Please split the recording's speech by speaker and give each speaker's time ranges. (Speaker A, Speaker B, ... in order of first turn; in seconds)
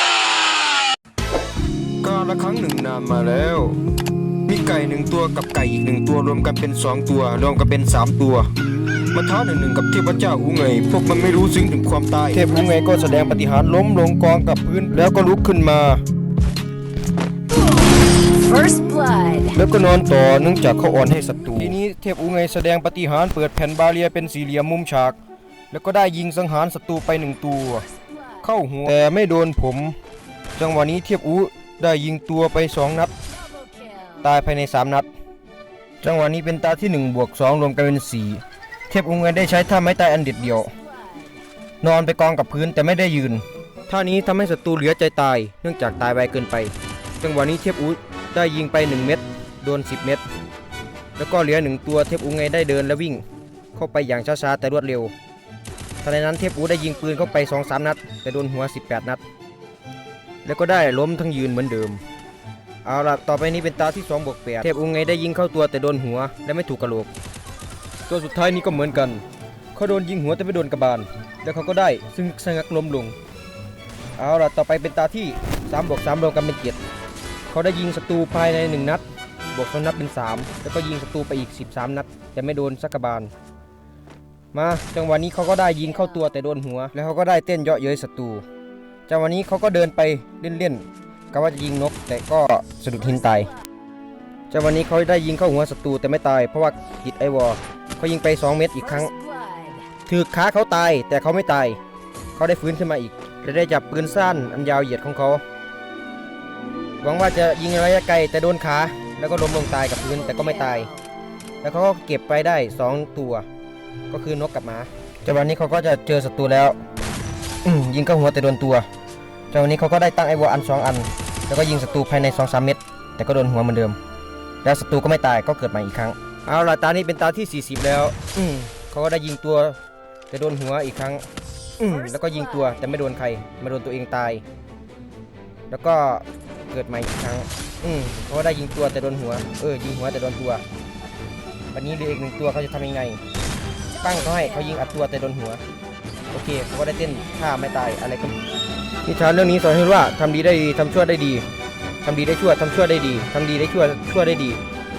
Speaker A: 2.0-3.8, 4.5-8.5, 9.1-16.0, 19.5-25.2, 25.7-30.0, 30.6-33.1, 34.2-35.1, 36.0-40.7, 41.8-50.2, 51.2-55.1, 56.0-59.2, 60.5-62.0, 62.9-67.1, 68.1-73.2, 74.2-76.8, 77.5-83.3, 84.5-88.5, 89.1-93.5, 94.5-99.1, 100.1-101.8, 102.4-105.4, 107.0-110.9, 111.6-113.5, 114.1-116.8, 117.6-118.9, 119.5-124.0, 124.6-129.8, 130.3-131.2, 131.8-134.4, 135.7-140.6, 141.7-143.2, 144.0-145.6, 146.3-148.4, 149.1-151.4, 152.0-154.6
Speaker B: 18.3-19.6, 33.5-34.2, 40.7-41.4, 99.1-99.9, 110.4-111.0, 132.3-132.8